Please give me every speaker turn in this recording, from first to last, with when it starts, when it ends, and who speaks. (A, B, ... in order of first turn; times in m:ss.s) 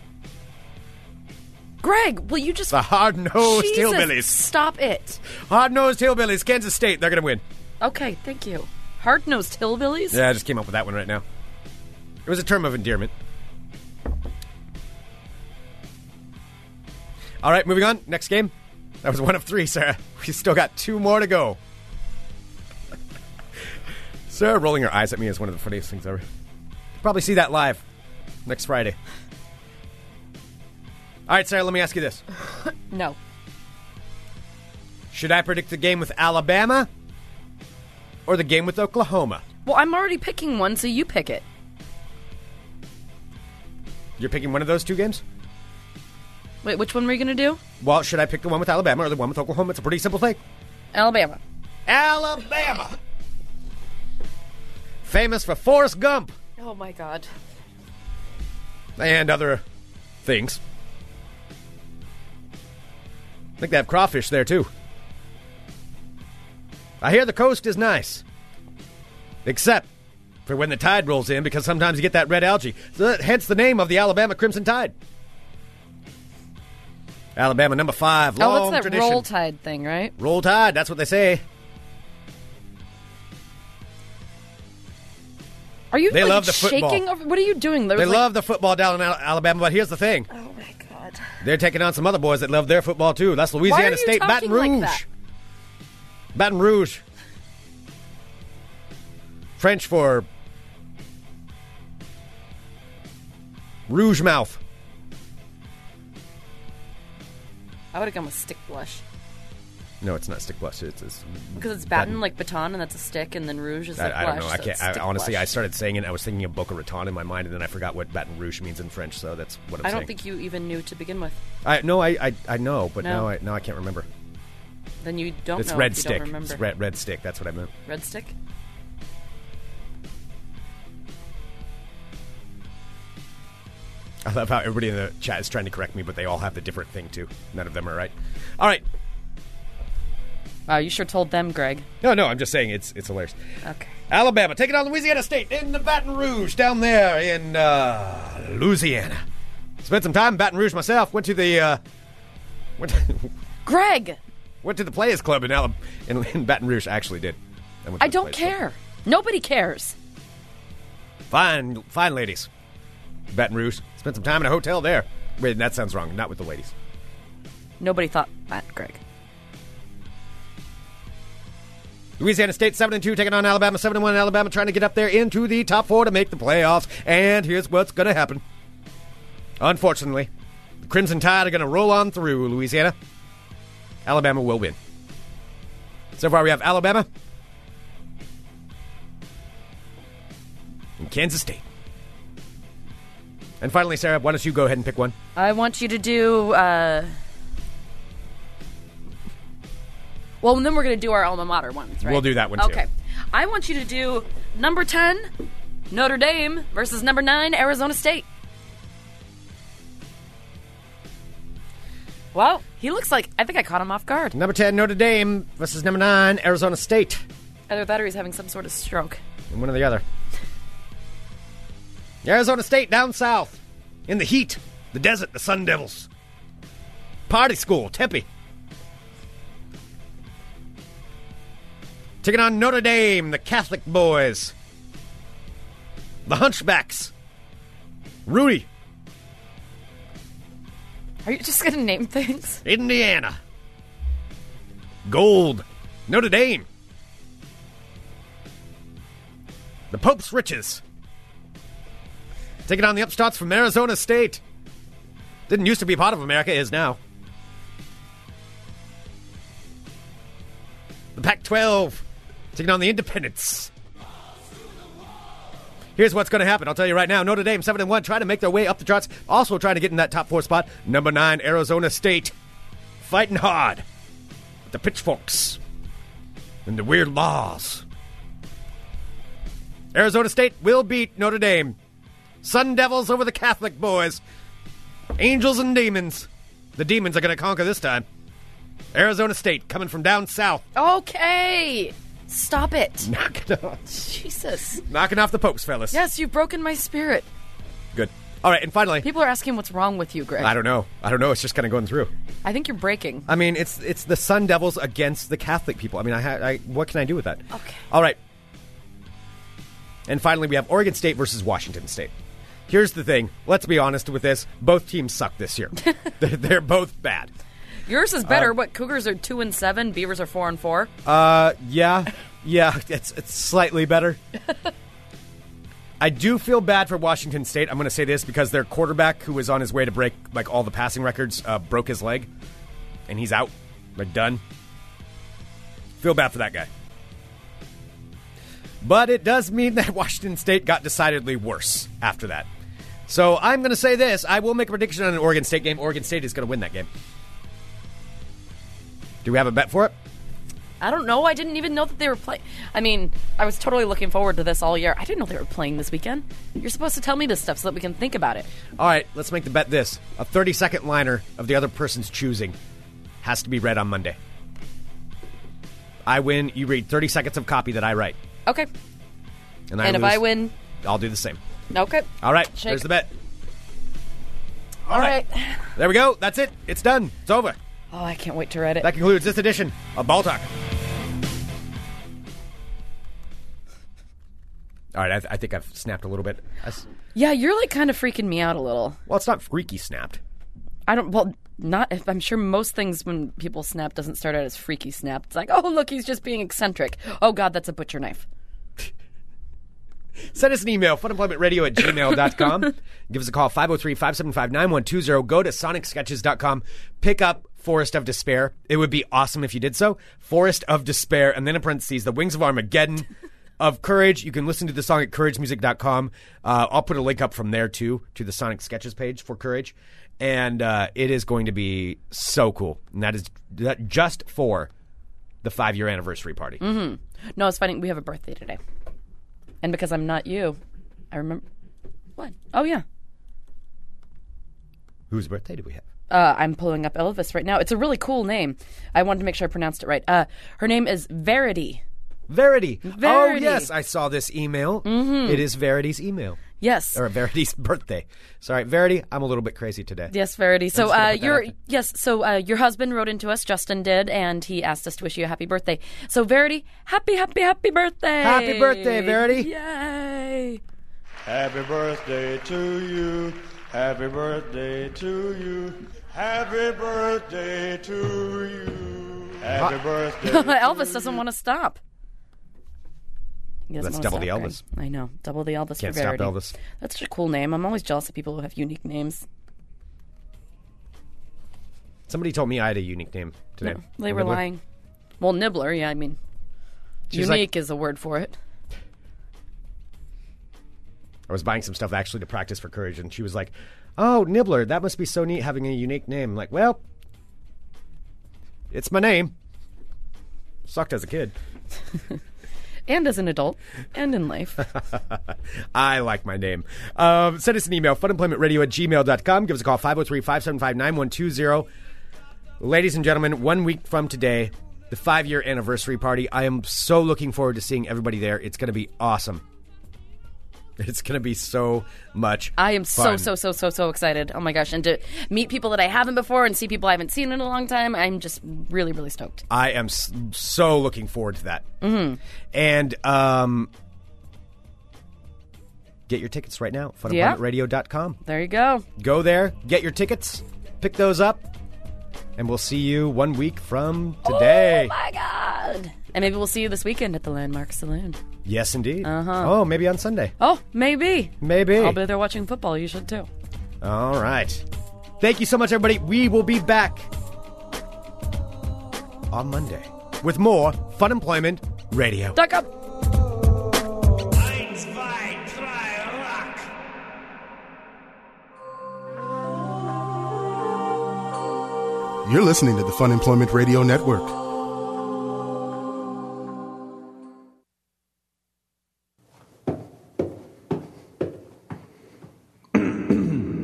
0:01.8-0:02.8 A
0:02.7-0:04.4 B
0:03.4-0:05.2 A
0:05.3-0:07.4 B
0:07.8-0:10.2 A
0:10.1-0:11.2 B
0:12.2-0:13.1 B
0:17.4-0:21.6 B
0:24.3-0:26.2 B
0:27.0-0:27.8 B
0:28.4-0:29.0 B
0:31.3-0:32.2 B
0:32.9-0:33.2 A
0:35.1-0:36.9 B
0:38.2-0:39.4 B
0:39.6-0:41.4 A
0:44.2-0:45.2 B
0:46.6-0:47.6 A
0:47.8-0:50.4 B
0:50.9-0:51.4 A
0:51.9-0:53.0 B
0:55.0-0:56.3 B
0:56.6-0:57.3 A
0:59.0-0:59.6 B
1:00.2-1:00.6 B
1:03.6-1:04.7 B
1:07.0-1:08.2 B
1:09.4-1:09.9 B
1:10.4-1:14.9 B
1:17.4-1:19.2 B
1:18.4-1:20.1 A
1:20.2-1:21.4 B
1:25.9-1:28.2 A
1:26.1-1:27.0 B
1:27.9-1:30.3 B
1:30.3-1:31.2 A
1:31.4-1:35.0 B
1:33.6-1:35.0 A
1:36.3-1:37.0 B
1:39.6-1:40.3 B
1:43.9-1:44.6 B
1:47.9-1:49.0 A
1:50.0-1:52.2 B
1:51.6-1:55.5 A
1:54.0-2:00.1 B
1:59.8-2:01.4 A
2:01.6-2:04.1 B
2:03.0-2:03.3 A
2:05.0-2:06.6 A
2:05.6-2:07.7 B
2:07.8-2:08.3 A
2:14.2-2:18.8 B
2:20.7-2:21.9 A
2:22.0-2:23.4 B
2:23.6-2:23.9 A
2:24.1-2:29.2 B
2:29.8-2:31.8 B
2:32.8-2:33.3 B
2:33.6-2:34.2 A
2:34.6-2:38.6 B
2:38.0-2:40.0 A
2:41.3-2:42.5 B
2:43.3-2:46.7 B
2:47.8-2:49.0 A
2:52.2-2:58.4 B
2:59.6-3:00.3 B
3:00.8-3:02.9 B
3:04.0-3:04.8 B
3:06.2-3:07.1 B
3:11.0-3:11.6 B
3:13.6-3:15.1 B
3:15.4-3:17.1 A
3:20.4-3:25.3 A
3:22.0-3:22.8 B
3:25.9-3:28.2 A
3:32.3-3:34.3 A
3:34.3-3:37.2 B
3:37.7-3:39.2 A
3:39.5-3:40.0 B
3:42.2-3:46.1 B
3:47.3-3:48.3 B
3:52.2-3:54.5 B
3:56.3-3:57.1 B
3:58.2-3:58.7 B
4:01.2-4:02.6 A
4:02.6-4:03.4 B
4:05.0-4:06.7 B
4:09.9-4:10.8 B
4:12.7-4:14.4 B
4:15.5-4:17.0 B
4:21.2-4:22.0 B
4:22.5-4:23.7 B
4:26.0-4:32.3 B
4:33.0-4:33.8 B
4:34.7-4:35.6 B
4:36.6-4:37.8 B
4:39.9-4:41.8 B
4:42.4-4:44.2 B
4:45.2-4:48.0 B
4:48.9-4:50.6 B
4:50.7-4:53.1 A
4:53.0-4:53.8 B
4:53.9-4:54.8 A
4:54.9-4:56.0 B
4:55.9-4:57.3 A
4:57.9-4:59.1 B
4:59.0-5:00.5 A
5:00.4-5:02.1 B
5:02.4-5:03.2 A
5:03.3-5:08.2 B
5:07.5-5:07.8 A
5:10.1-5:12.1 B
5:12.7-5:17.3 B
5:17.9-5:20.9 A
5:18.2-5:18.5 B
5:21.0-5:24.2 B
5:26.0-5:32.3 B
5:33.1-5:34.4 B
5:36.0-5:36.7 B
5:38.8-5:42.5 B
5:43.1-5:46.9 B
5:49.2-5:49.9 B
5:50.8-5:58.5 A
5:58.8-6:02.6 B
6:03.2-6:04.2 B
6:06.0-6:08.2 B
6:09.7-6:10.3 B
6:09.8-6:10.5 A
6:10.8-6:11.4 B
6:11.7-6:12.8 A
6:12.2-6:13.1 B
6:14.9-6:15.2 B
6:14.9-6:15.7 A
6:15.8-6:17.6 B
6:17.9-6:18.9 A
6:18.8-6:20.5 B
6:24.9-6:26.8 B
6:27.1-6:29.0 A
6:29.1-6:30.2 B
6:30.9-6:38.2 A
6:40.3-6:53.1 B
6:53.6-7:04.7 B
7:05.4-7:06.6 B
7:06.6-7:08.6 A
7:09.6-7:10.6 A
7:11.1-7:11.4 A
7:12.2-7:12.8 A
7:15.1-7:15.8 B
7:16.1-7:21.8 A
7:22.3-7:26.4 B
7:22.8-7:23.7 A
7:24.8-7:25.4 A
7:26.6-7:27.0 A
7:26.9-7:30.1 B
7:30.1-7:40.6 A
7:30.7-7:31.5 B
7:38.2-7:39.5 B
7:41.3-7:50.2 C
7:49.4-7:50.0 B
7:50.2-7:51.8 A
7:53.7-7:59.2 A
7:53.8-7:54.6 B
7:55.8-7:56.5 B
8:02.1-8:04.4 B
8:03.6-8:04.6 A
8:05.2-8:06.2 A
8:07.1-8:07.5 B
8:07.1-8:08.4 A
8:11.3-8:16.8 B
8:18.7-8:19.3 B
8:20.6-8:21.3 B
8:22.9-8:24.6 A
8:24.7-8:31.7 B
8:32.6-8:39.4 B
8:40.8-8:43.3 B
8:42.6-8:49.4 A
8:49.5-8:51.7 B
8:51.8-8:52.2 A
8:52.5-8:53.7 B
8:56.1-8:58.2 B
8:57.1-8:57.4 A
8:58.2-8:58.8 A
8:59.0-9:01.4 B
9:02.4-9:04.9 B
9:04.2-9:08.2 A
9:08.4-9:10.3 B
9:09.0-9:09.5 A
9:10.4-9:13.3 A
9:11.4-9:12.0 B
9:13.8-9:14.6 B
9:15.2-9:17.1 B
9:19.3-9:22.4 B
9:22.3-9:22.7 A
9:24.3-9:26.6 B
9:32.2-9:34.4 D
9:42.8-9:43.4 B